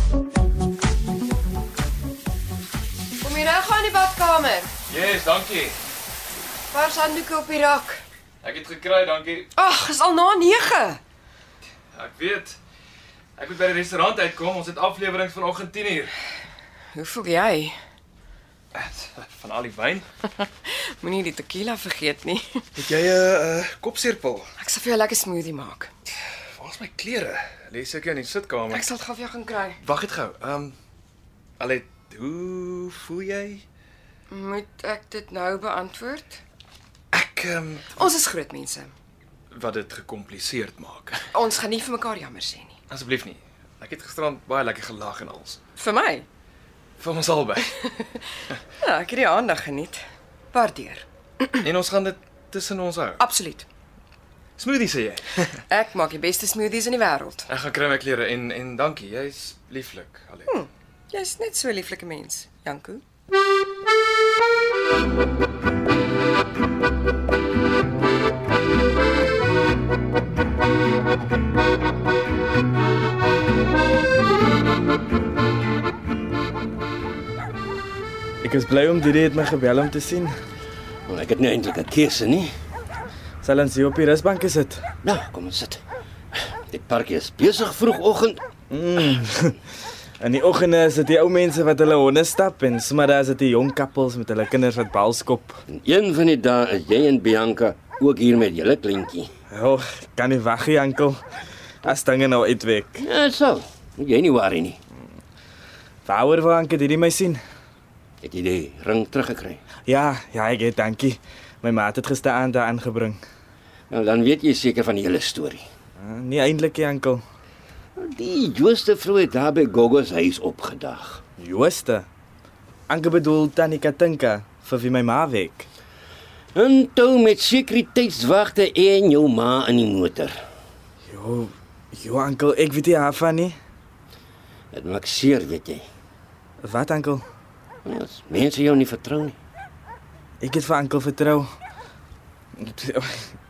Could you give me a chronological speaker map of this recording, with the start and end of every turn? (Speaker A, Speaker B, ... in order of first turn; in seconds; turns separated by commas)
Speaker A: 3.2-4.7, Speaker B: 4.9-5.8, Speaker A: 6.7-8.0, Speaker B: 8.4-9.5, Speaker A: 9.5-11.0, Speaker B: 11.9-12.6, Speaker B: 13.3-16.1, Speaker A: 16.9-17.8, Speaker B: 18.7-20.1, Speaker A: 20.4-22.7, Speaker B: 22.8-24.5, Speaker A: 24.6-25.9, Speaker B: 26.5-28.9, Speaker A: 28.7-29.8, Speaker B: 29.8-30.7, Speaker B: 31.6-33.6, Speaker A: 34.3-36.4, Speaker B: 37.1-38.0, Speaker A: 37.9-38.9, Speaker B: 39.5-41.2, Speaker A: 41.3-42.7, Speaker B: 42.9-45.6, Speaker A: 45.8-46.2, Speaker B: 47.0-47.8, Speaker A: 47.8-48.1, Speaker A: 48.8-51.6, Speaker B: 51.6-53.2, Speaker A: 53.2-53.6, Speaker B: 54.6-55.6, Speaker A: 55.7-57.5, Speaker B: 57.5-60.5, Speaker A: 60.5-63.0, Speaker C: 78.4-80.3, Speaker D: 81.1-82.5, Speaker C: 83.4-84.8, Speaker D: 85.0-85.8, Speaker D: 86.4-88.4, Speaker C: 88.7-89.6, Speaker C: 90.2-95.6, Speaker D: 95.7-99.3, Speaker C: 99.5-101.2, Speaker C: 101.8-103.0, Speaker D: 103.0-104.8, Speaker C: 106.0-107.4, Speaker D: 108.2-109.6, Speaker C: 109.9-113.2, Speaker D: 113.9-115.6, Speaker C: 116.0-117.2, Speaker D: 118.0-121.2, Speaker C: 121.4-122.1, Speaker C: 122.9-125.7, Speaker D: 126.5-130.3, Speaker C: 131.1-133.6, Speaker D: 134.7-135.8, Speaker C: 136.6-137.2, Speaker D: 137.8-139.4, Speaker C: 140.4-141.5, Speaker C: 142.6-143.2